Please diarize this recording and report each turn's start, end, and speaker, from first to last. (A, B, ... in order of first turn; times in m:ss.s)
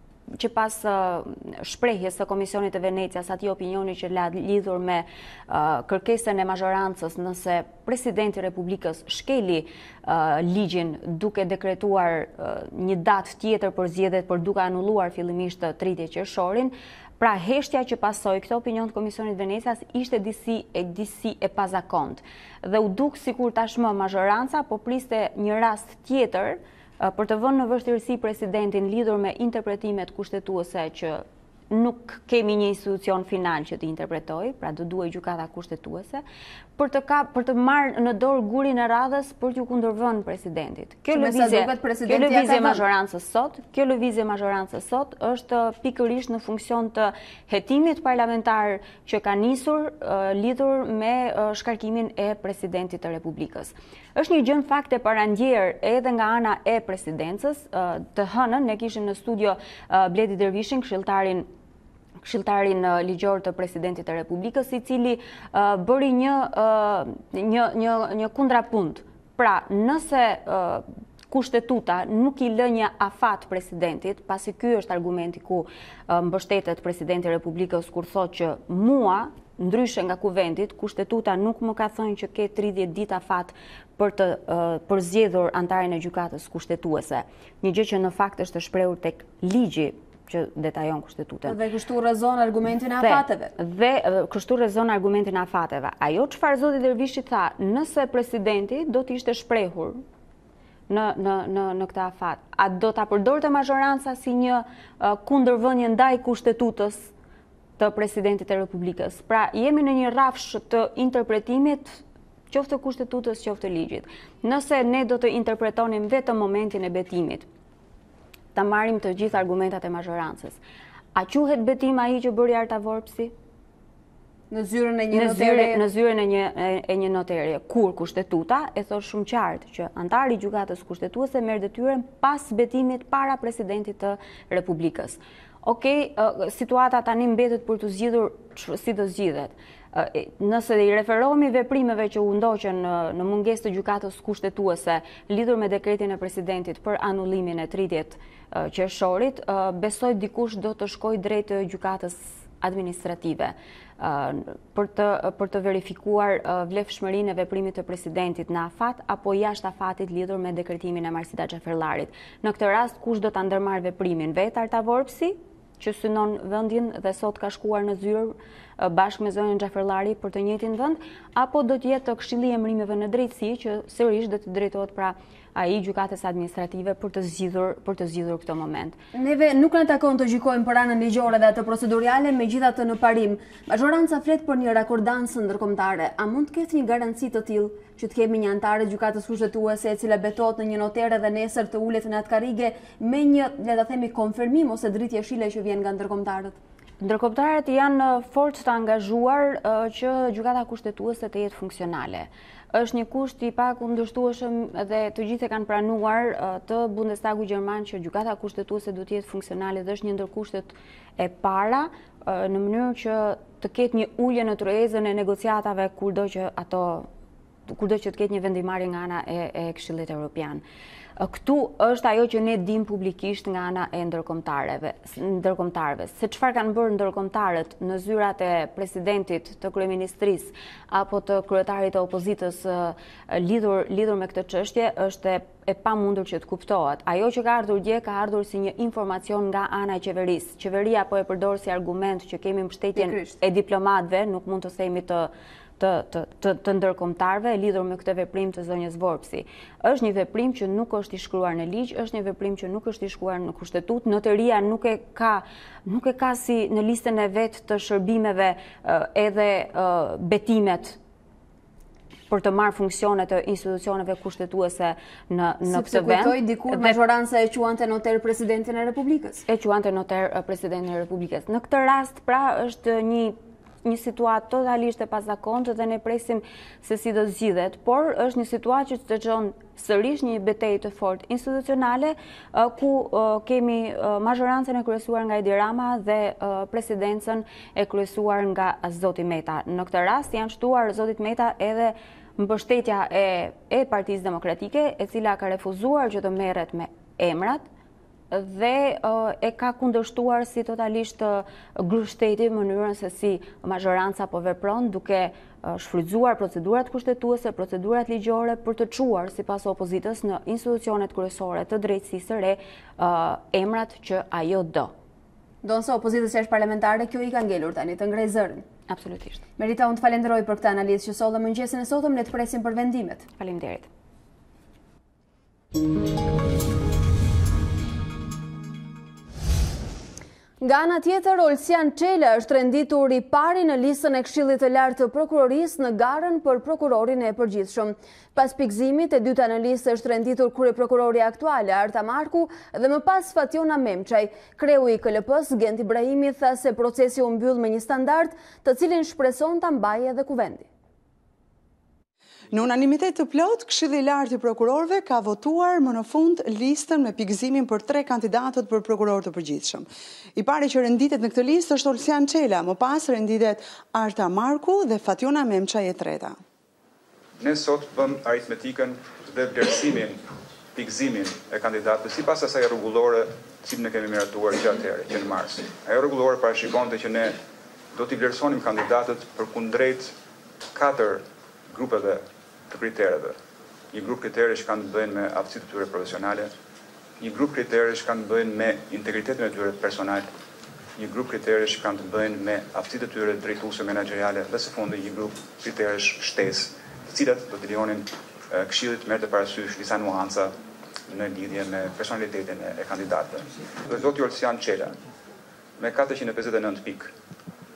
0:00.3-0:36.2 A
0:36.8-1:01.5 A
0:41.1-0:42.8 B
1:02.2-1:31.6 A
1:31.4-1:33.5 B
1:33.0-1:40.0 A
1:40.9-1:47.1 A
1:47.8-1:57.5 A
1:58.5-2:00.6 A
2:01.1-2:03.3 A
2:04.5-2:05.8 B
2:05.1-2:59.0 A
2:59.1-3:16.6 B
3:17.0-3:37.1 A
3:37.7-3:40.6 A
3:41.2-4:21.0 A
4:03.0-4:03.4 B
4:22.3-4:27.0 A
4:25.7-4:29.4 B
4:29.5-4:57.6 A
4:58.3-5:14.9 A
5:15.6-5:18.6 B
5:18.9-5:19.4 A
5:19.6-5:23.2 B
5:23.4-5:23.9 A
5:30.6-5:50.7 B
5:52.5-6:06.4 C
6:07.4-6:10.2 D
6:10.7-6:17.4 D
6:17.9-6:20.2 D
6:20.7-6:23.4 D
6:23.9-6:26.5 D
6:27.2-6:30.3 D
6:31.0-6:40.6 D
6:41.1-6:45.0 D
6:45.8-6:47.1 D